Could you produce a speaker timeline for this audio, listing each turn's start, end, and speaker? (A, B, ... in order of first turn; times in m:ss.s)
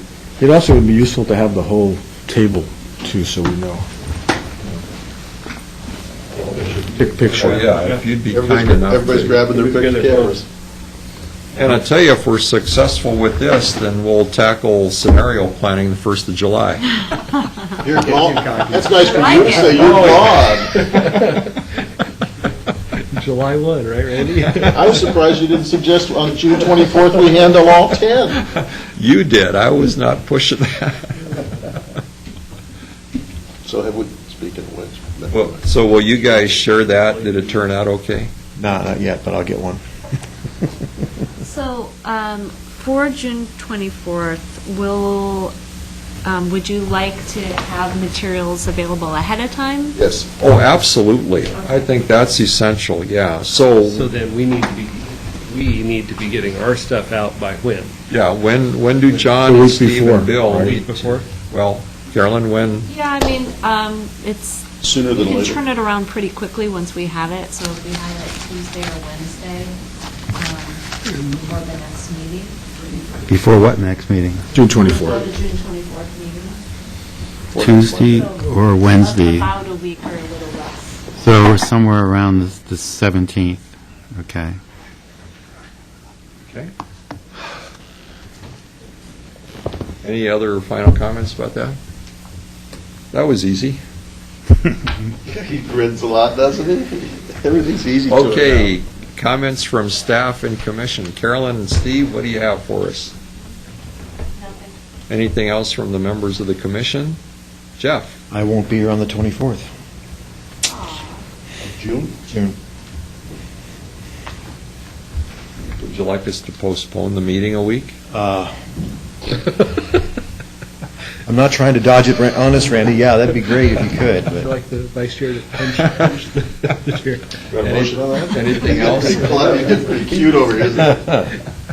0:00.4-0:03.9 A
0:06.9-0:07.7 A
0:07.3-0:09.4 B
0:07.4-0:08.1 C
0:08.3-0:10.5 D
0:09.1-0:10.4 C
0:11.6-0:17.0 B
0:17.8-0:20.9 D
0:18.0-0:21.6 C
0:19.0-0:20.1 E
0:19.9-0:20.3 B
0:23.1-0:25.0 C
0:24.7-0:28.4 D
0:28.5-0:31.3 B
0:33.6-0:35.6 D
0:35.3-0:38.3 B
0:36.7-0:37.7 C
0:38.6-0:39.8 F
0:41.4-0:45.5 E
0:46.2-0:50.0 E
0:50.0-0:50.3 D
0:50.4-0:54.1 B
0:51.6-0:51.9 E
0:53.8-0:57.9 C
0:58.1-1:02.9 B
0:59.4-1:00.8 A
1:00.4-1:01.3 C
1:02.9-1:09.8 E
1:04.8-1:05.6 D
1:10.4-1:12.9 E
1:13.3-1:14.4 G
1:14.5-1:15.2 A
1:14.8-1:16.6 E
1:17.5-1:18.3 D
1:17.6-1:19.5 G
1:18.1-1:21.0 E
1:21.2-1:24.6 G
1:26.5-1:26.7 B
1:30.0-1:31.8 B
1:33.1-1:33.8 B
1:35.2-1:38.8 D
1:38.1-1:43.1 B
1:44.4-1:44.7 E
1:45.1-1:47.2 B
1:47.8-1:48.2 B
1:48.3-1:49.7 F
1:50.7-1:51.2 E
1:51.6-1:52.2 D
1:52.3-1:52.6 F
1:55.8-1:58.0 B
1:58.1-1:58.5 F
2:01.3-2:04.5 F
2:04.2-2:07.2 C
2:07.5-2:11.3 D
2:07.5-2:09.6 B
2:09.0-2:09.7 C